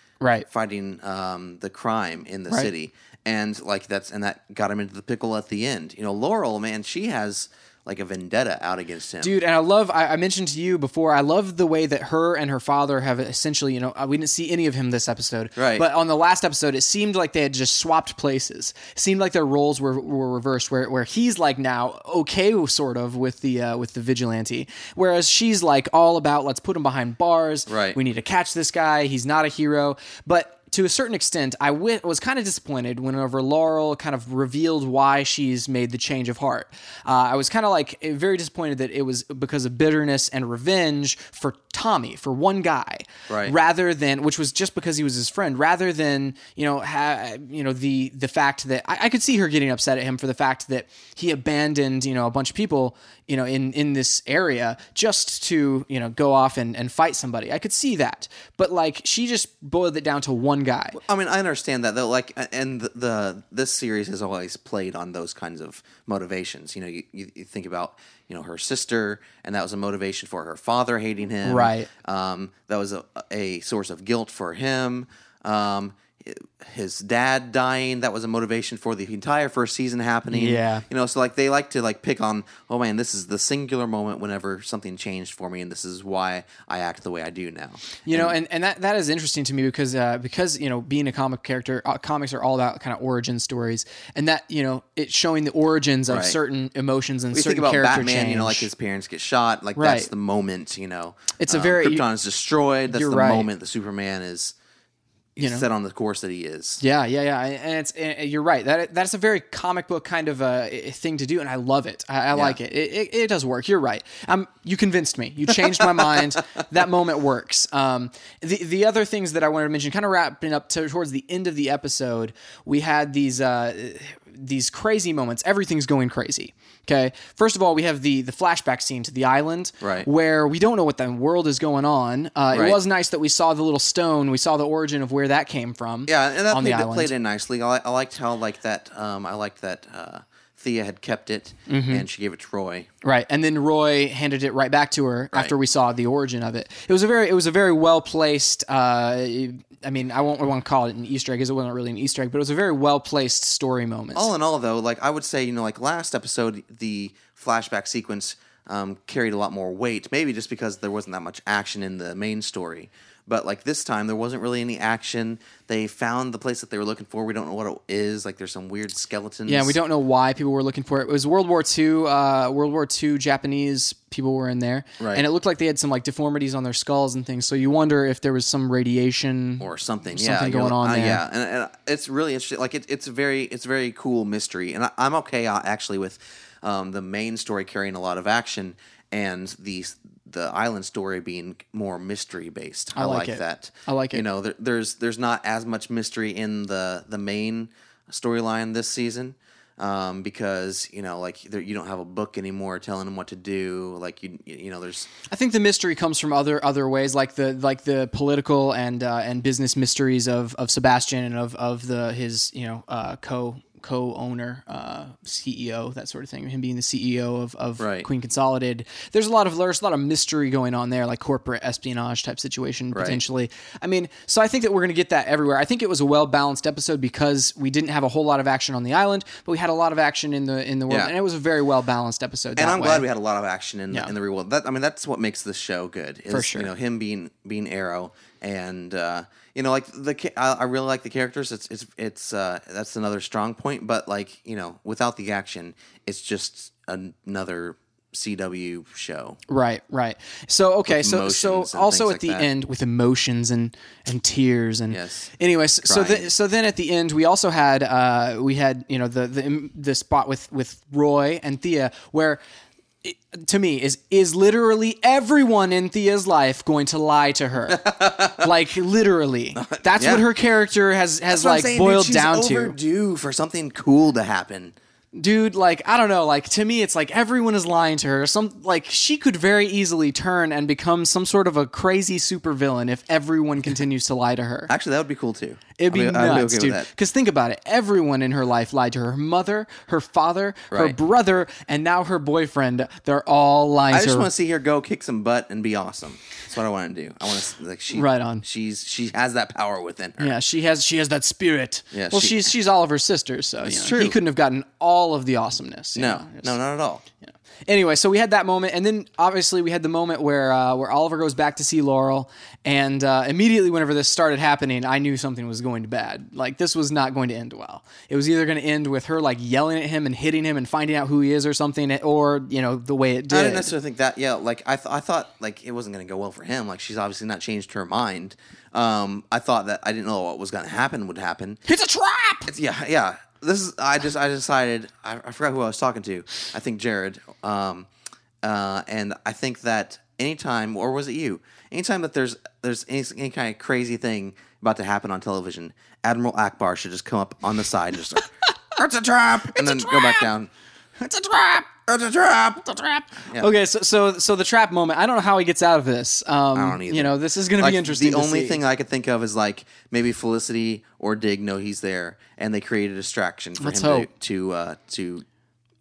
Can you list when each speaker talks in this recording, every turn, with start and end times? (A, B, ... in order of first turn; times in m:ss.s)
0:00.2-0:00.5 A
0:00.5-0:09.3 B
0:09.2-1:01.0 A
0:15.6-0:15.8 B
0:27.7-0:28.0 B
0:43.3-0:43.5 B
1:01.0-1:28.3 B
1:11.4-1:11.9 A
1:20.3-1:20.8 A
1:28.0-1:38.7 A
1:36.1-1:36.4 B
1:37.3-1:44.5 B
1:39.8-1:40.1 A
1:41.4-1:42.0 A
1:42.9-1:43.5 A
1:45.4-1:46.8 B
1:45.4-1:45.6 A
1:46.8-2:17.1 A
1:55.7-1:56.2 B
2:09.8-2:10.1 B
2:12.5-2:12.8 B
2:16.1-2:22.9 B
2:21.7-2:22.0 A
2:23.0-2:34.3 A
2:34.1-2:49.8 B
2:49.5-3:01.2 A
2:55.0-2:55.2 B
2:59.6-3:25.1 B
3:12.9-3:14.2 A
3:25.3-3:53.0 A
3:37.8-3:38.0 B
3:42.9-3:43.2 B
3:52.6-4:09.4 B
3:56.3-3:56.7 A
4:09.5-4:22.4 A
4:10.9-4:12.5 B
4:14.9-4:15.3 B
4:15.8-4:16.3 B
4:23.0-4:32.8 A
4:27.7-4:28.5 B
4:29.6-4:30.2 B
4:31.3-4:34.7 B
4:35.1-4:44.7 A
4:44.7-4:46.9 B
4:45.8-4:54.3 A
4:50.7-4:51.0 B
4:53.9-5:00.3 B
4:57.9-4:58.4 A
5:00.2-5:06.6 A
5:01.9-5:02.5 B
5:03.6-5:04.2 B
5:06.0-5:07.0 B
5:07.7-5:23.7 A
5:23.3-5:31.6 B
5:31.7-5:32.5 A
5:32.5-5:37.9 B
5:38.4-5:50.5 B
5:49.5-5:50.3 A
5:51.0-5:51.7 A
5:51.9-5:52.6 B
5:52.6-5:58.6 A
5:53.2-5:53.5 B
5:56.5-6:05.2 B
6:03.6-6:04.1 A